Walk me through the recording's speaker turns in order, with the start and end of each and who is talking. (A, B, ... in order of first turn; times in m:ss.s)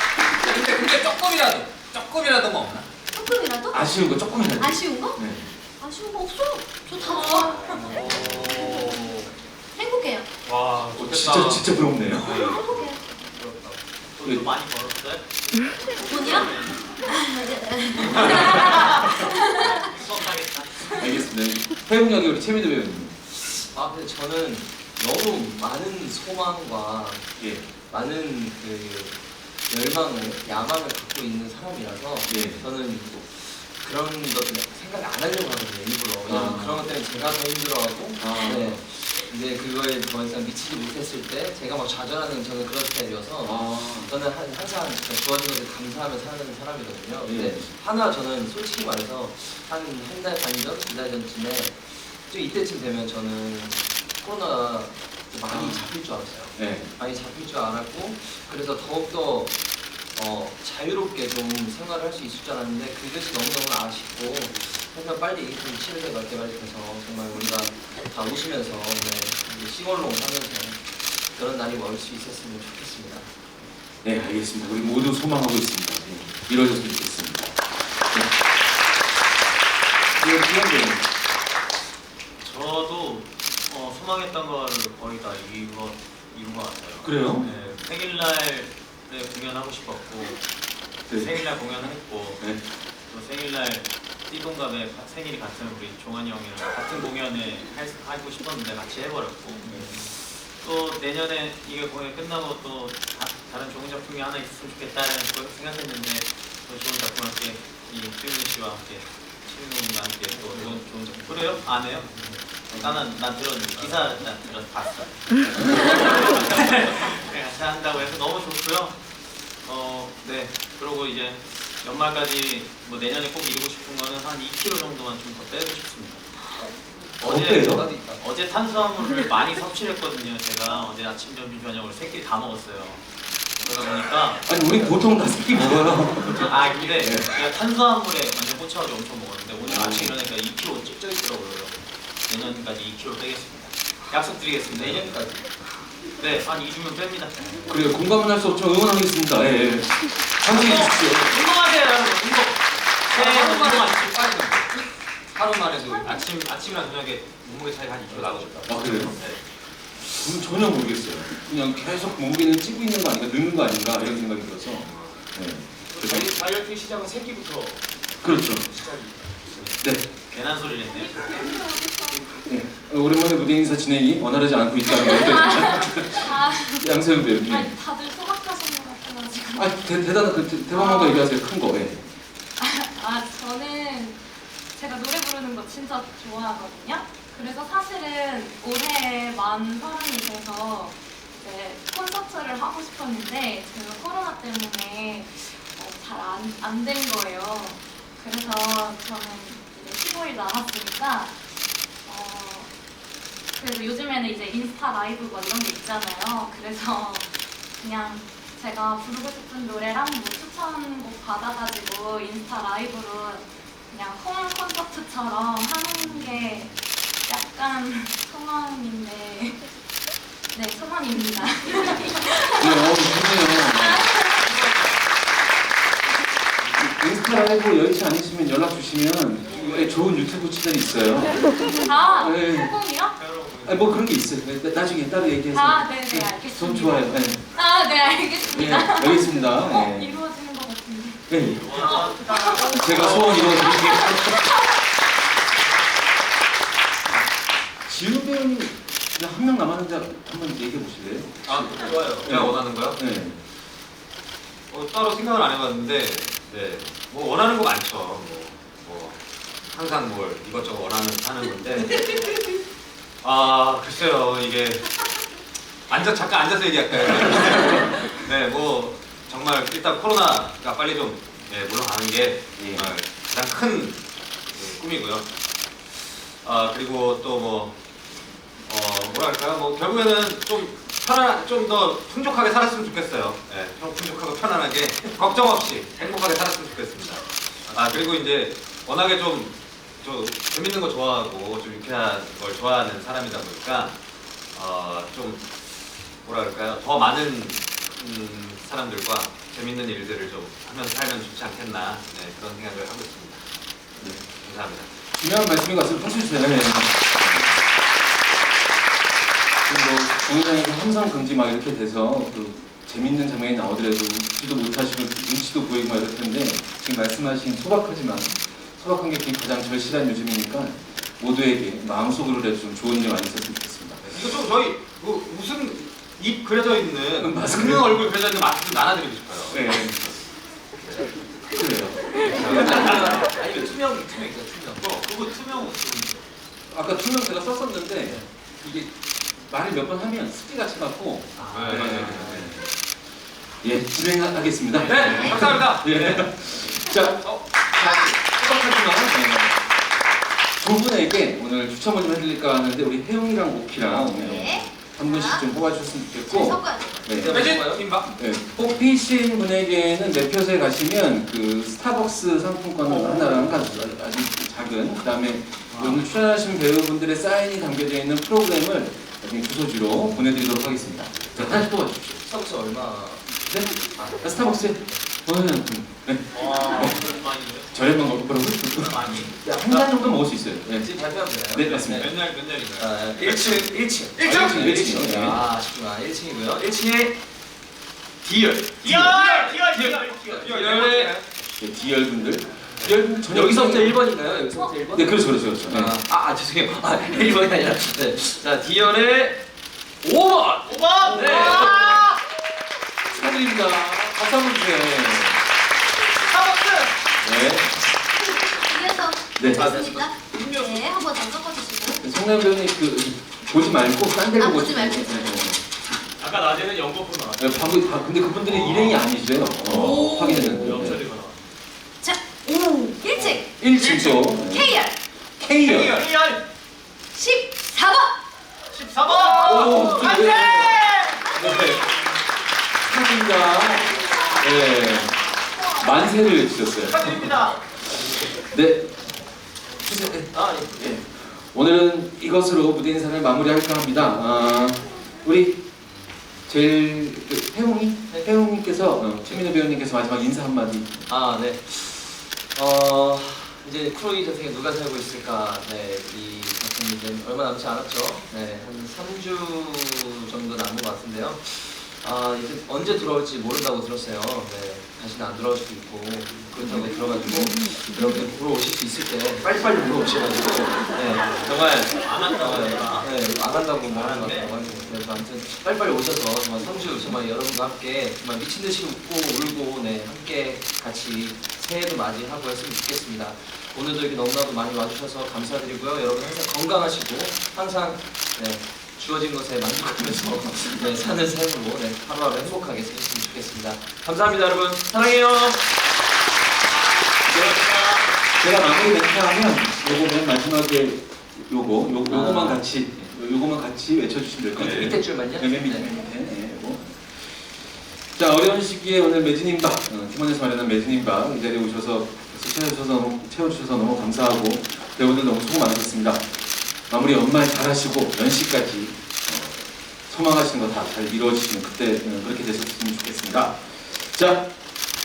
0:00.2-0:02.9 A
0:03.1-0:05.2 B
0:03.7-0:05.5 C
0:05.8-0:08.0 B
0:07.2-0:07.9 D
0:07.8-0:08.5 E
0:08.1-0:08.5 A
0:08.7-0:09.0 B
0:09.7-0:10.3 B
0:10.9-0:12.3 C
0:12.2-0:12.6 A
0:12.2-0:13.0 B
0:14.2-0:15.2 E
0:14.2-0:14.5 C
0:16.0-0:16.5 B
0:16.0-0:16.8 E
0:17.0-0:19.9 B
0:18.7-0:19.2 E
0:19.7-0:20.9 E
0:20.9-0:23.2 C
0:23.7-0:27.3 F
0:27.4-0:27.7 C
0:27.9-0:59.6 F
0:32.3-0:32.6 C
0:36.3-0:36.9 C
0:38.2-0:38.8 C
0:43.4-0:44.1 C
0:47.2-0:47.7 C
0:55.4-0:55.9 C
0:56.5-0:56.9 C
1:00.1-1:13.3 F
1:14.0-1:18.3 C
1:20.1-1:21.1 C
1:22.4-1:30.4 E
1:27.0-1:27.5 C
1:31.1-1:31.4 C
1:31.1-1:32.5 E
1:32.4-1:32.7 C
1:33.1-1:59.0 E
1:39.7-1:40.0 C
1:50.4-1:52.3 F
1:53.8-1:54.1 F
1:59.6-2:06.3 E
2:07.2-2:07.9 C
2:07.2-2:13.0 E
2:07.6-2:08.2 F
2:13.6-2:14.4 E
2:14.4-2:17.4 C
2:16.4-2:25.1 E
2:16.6-2:16.9 F
2:19.6-2:20.1 C
2:24.6-2:25.5 F
2:26.2-2:27.8 E
2:27.7-2:31.4 C
2:30.5-2:34.4 E
2:33.1-2:34.6 A
2:35.3-2:39.4 A
2:38.6-2:39.2 C
2:40.0-2:46.3 C
2:44.8-2:45.2 A
2:45.9-2:49.8 G
2:48.2-2:48.7 C
2:49.8-2:50.0 C
2:50.3-2:51.3 E
2:50.9-2:52.3 D
2:52.4-2:57.7 C
2:54.8-2:59.9 D
2:59.5-3:02.1 C
3:00.7-3:01.3 D
3:02.6-3:04.2 D
3:04.7-3:21.5 D
3:22.0-3:22.7 D
3:23.5-3:39.7 D
3:40.5-3:44.5 D
3:42.6-3:44.1 C
3:44.5-3:45.0 E
3:46.7-3:52.8 C
3:51.8-3:53.2 D
3:53.2-3:53.9 E
3:53.6-3:57.4 C
3:55.5-4:04.8 D
3:58.5-4:00.2 C
4:01.3-4:02.0 C
4:01.4-4:03.7 E
4:02.7-4:04.4 C
4:07.8-4:13.4 C
4:11.4-4:13.0 A
4:14.7-4:22.4 A
4:23.2-4:25.0 A
4:25.9-4:34.0 A
4:32.6-4:32.9 C
4:34.5-4:35.3 A
4:35.9-4:37.8 A
4:38.6-4:54.0 A
4:47.6-4:48.0 F
4:54.5-5:03.4 A
5:04.0-5:04.2 C
5:04.4-5:05.0 A
5:05.1-5:07.6 C
5:09.6-5:24.0 C
5:24.0-5:30.2 A
5:27.2-5:28.0 C
5:29.5-5:30.0 C
5:31.5-5:33.1 C
5:32.1-5:35.1 F
5:32.2-5:33.1 A
5:34.8-5:36.2 E
5:36.7-5:42.6 C
5:41.4-5:41.7 E
5:41.5-5:42.5 A
5:41.7-5:42.5 F
5:43.6-5:49.6 C
5:44.8-5:45.4 B
5:45.0-5:45.2 E
5:45.2-5:45.8 A
5:47.8-5:48.1 B
5:50.6-6:12.2 C
5:53.9-5:55.5 B
5:56.2-5:57.2 B
5:57.1-5:57.8 F
5:57.3-5:58.1 A
6:02.8-6:04.0 F
6:11.4-6:13.3 F
6:13.5-6:17.1 C
6:13.8-6:14.7 F
6:16.3-6:17.7 E
6:17.7-6:20.9 C
6:18.8-6:19.3 E
6:19.4-6:19.9 F
6:20.8-6:22.1 F
6:21.5-6:22.1 C
6:21.6-6:24.4 A
6:22.8-6:27.1 F
6:24.2-6:25.4 C
6:28.2-6:31.1 F
6:28.8-6:29.6 A
6:30.3-6:31.2 A
6:31.6-6:34.0 C
6:33.2-6:39.4 F
6:34.9-6:36.0 C
6:40.0-6:41.9 F
6:40.7-6:42.0 E
6:41.0-6:42.0 C
6:43.1-6:45.4 C
6:46.2-6:46.9 E
6:47.2-6:47.8 C
6:48.2-6:52.0 B
6:49.4-6:49.7 C
6:49.5-6:50.1 F
6:52.0-6:55.6 C
6:54.4-6:55.5 B
6:56.2-6:57.7 G
6:57.4-7:01.0 C
6:58.5-6:59.0 G
6:59.6-7:00.6 B
7:00.0-7:01.4 G
7:02.0-7:03.6 B
7:03.4-7:04.8 C
7:03.8-7:04.3 E
7:04.4-7:04.9 B
7:05.4-7:06.1 C
7:05.7-7:06.3 E
7:07.1-7:08.2 B
7:08.7-7:11.2 E
7:09.1-7:10.8 B
7:09.4-7:11.9 C
7:12.8-7:15.2 C
7:14.0-7:16.5 D
7:15.7-7:17.6 C
7:16.9-7:17.6 E
7:18.4-7:19.1 C
7:19.8-7:25.6 C
7:20.3-7:21.0 F
7:26.5-7:31.1 C
7:31.1-8:15.6 F
7:51.2-7:53.1 E
7:53.9-7:54.5 E
8:17.3-8:17.6 C
8:18.4-8:27.6 C
8:22.0-8:22.6 F
8:24.5-8:25.9 F
8:24.6-8:24.9 A
8:28.1-8:36.3 C
8:36.9-8:44.5 C